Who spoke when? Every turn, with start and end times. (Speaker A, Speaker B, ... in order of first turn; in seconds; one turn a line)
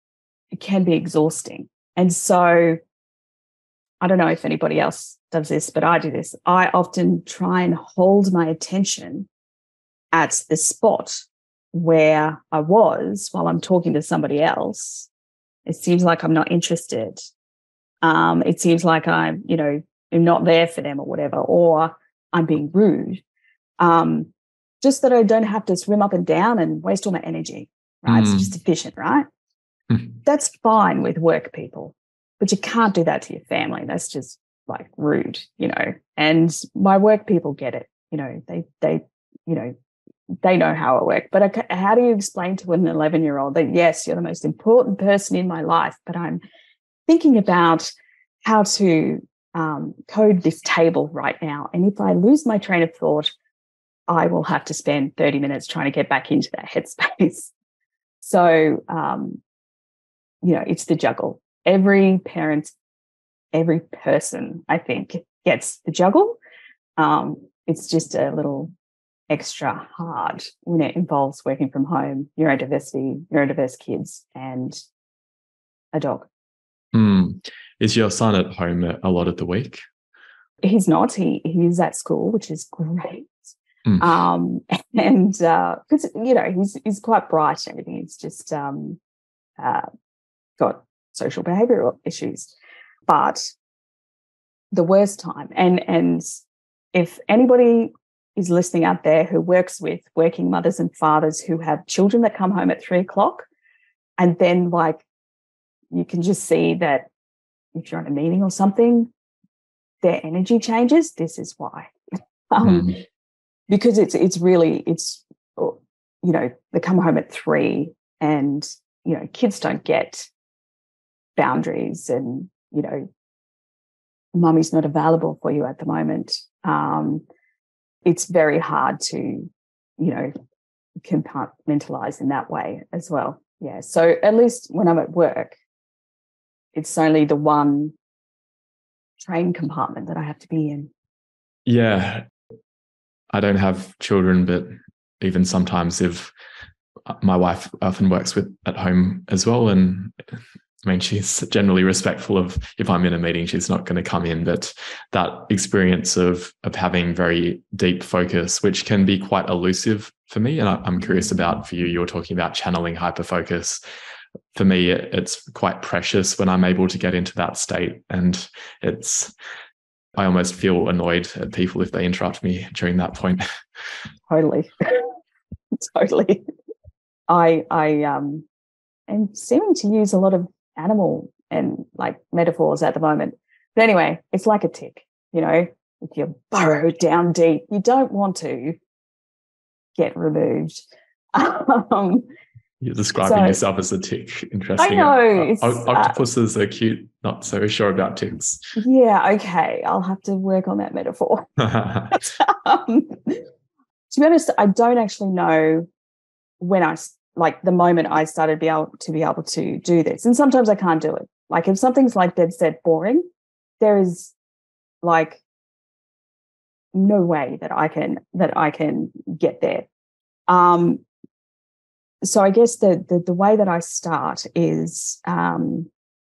Speaker A: 0.5-2.8
Speaker A: 4.0-9.3
Speaker A: 10.1-15.1
Speaker A: 15.7-17.2
Speaker A: 18.0-23.2
Speaker A: 23.8-24.3
Speaker A: 24.8-29.3
Speaker B: 28.1-28.5
Speaker A: 30.2-39.7
Speaker A: 40.4-46.4
Speaker A: 47.1-47.9
Speaker A: 48.4-53.3
Speaker A: 54.1-57.5
Speaker A: 58.2-59.4
Speaker A: 60.4-62.7
Speaker A: 63.5-66.4
Speaker A: 67.0-68.7
Speaker A: 69.3-74.8
Speaker A: 75.9-76.3
Speaker B: 76.9-79.8
Speaker A: 80.6-89.0
Speaker A: 89.6-89.9
Speaker A: 90.6-92.5
Speaker A: 93.1-93.5
Speaker A: 94.7-96.2
Speaker A: 96.9-103.5
Speaker A: 104.2-105.0
Speaker A: 105.9-107.1
Speaker A: 107.7-109.1
Speaker A: 110.0-111.9
Speaker A: 112.5-113.0
Speaker B: 112.6-113.0
Speaker A: 113.7-120.3
Speaker A: 121.4-123.1
Speaker A: 124.3-127.2
Speaker A: 128.0-130.3
Speaker A: 131.0-135.6
Speaker A: 136.7-137.9
Speaker A: 139.2-140.9
Speaker B: 141.7-142.2
Speaker B: 143.3-146.3
Speaker B: 147.1-150.1
Speaker B: 150.8-163.8
Speaker B: 164.5-169.3
Speaker B: 170.1-173.4
Speaker A: 174.3-175.1
Speaker A: 175.8-176.4
Speaker A: 177.3-178.4
Speaker A: 179.1-188.8
Speaker A: 189.9-192.2
Speaker B: 192.8-198.6
Speaker A: 193.2-193.6
Speaker A: 194.8-196.2
Speaker A: 198.8-201.5
Speaker B: 201.6-202.1
Speaker A: 202.1-203.4
Speaker A: 204.1-205.9
Speaker A: 206.6-213.2
Speaker A: 213.8-214.3
Speaker A: 215.0-215.4
Speaker A: 216.9-219.9
Speaker A: 220.5-221.0
Speaker A: 222.2-225.9